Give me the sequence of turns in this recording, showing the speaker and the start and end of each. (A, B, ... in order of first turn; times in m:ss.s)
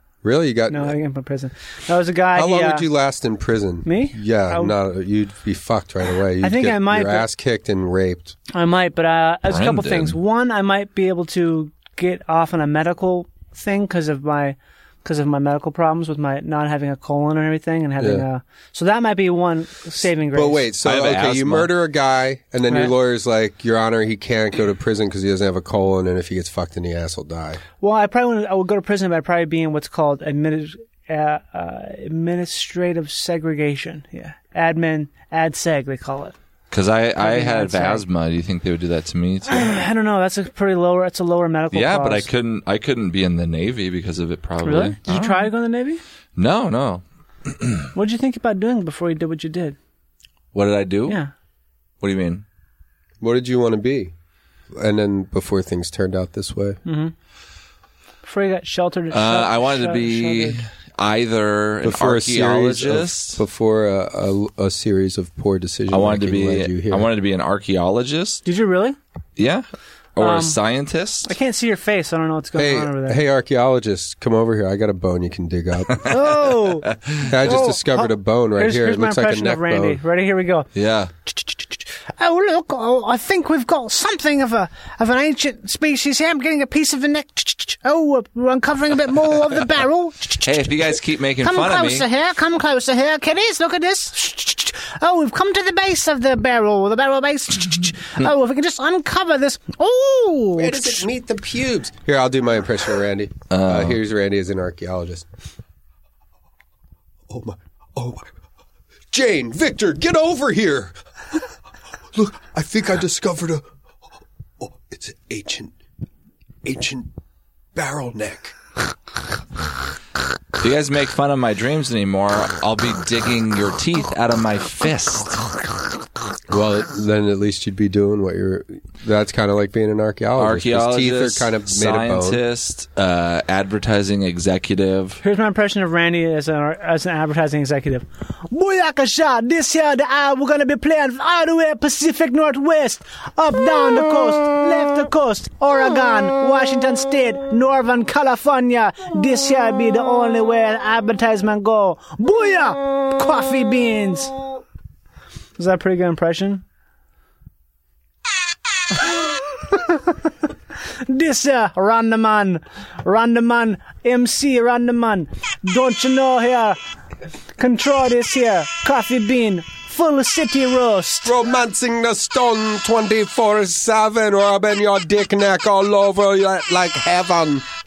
0:00.2-0:01.0 A
0:00.7-0:02.9 B
0:02.3-0:08.4 A
0:03.8-0:04.7 B
0:06.4-0:07.3 B
0:08.5-0:20.7 B
0:09.4-0:10.2 C
0:18.0-0:18.2 A
0:20.3-0:27.6 A
0:20.8-0:21.7 C
0:22.7-0:23.0 B
0:27.8-0:36.3 B
0:36.7-0:39.8 C
0:37.2-0:38.0 B
0:39.5-0:42.3 B
0:41.7-0:45.5 C
0:44.6-0:46.0 B
0:46.4-0:47.7 C
0:47.9-0:49.8 B
0:50.5-0:51.2 C
0:51.0-0:51.3 B
0:52.0-0:52.4 C
0:53.2-0:54.1 A
0:54.7-0:56.8 A
0:56.8-0:57.1 B
0:58.2-1:00.6 B
0:59.1-1:03.4 C
1:01.8-1:07.1 A
1:05.9-1:08.4 C
1:08.4-1:09.0 B
1:09.4-1:09.6 C
1:10.2-1:11.3 C
1:10.2-1:10.6 B
1:11.2-1:13.2 B
1:12.6-1:16.0 A
1:16.1-1:20.7 B
1:16.8-1:17.2 C
1:17.3-1:20.0 A
1:20.7-1:21.1 C
1:22.2-1:30.7 B
1:30.4-1:32.0 C
1:31.4-1:41.1 B
1:40.6-1:45.2 A
1:43.5-1:44.0 C
1:47.3-1:48.3 A
1:49.1-1:50.9 A
1:52.1-1:53.6 A
1:54.6-1:55.7 A
1:56.6-1:57.1 A
1:57.7-1:58.5 A
2:00.6-2:05.5 C
2:06.5-2:12.4 A
2:10.4-2:15.2 C
2:15.2-2:34.4 B
2:35.6-2:36.6 B
2:39.0-2:40.2 B
2:41.0-2:46.8 B
2:47.6-2:51.3 B
2:51.2-2:57.6 A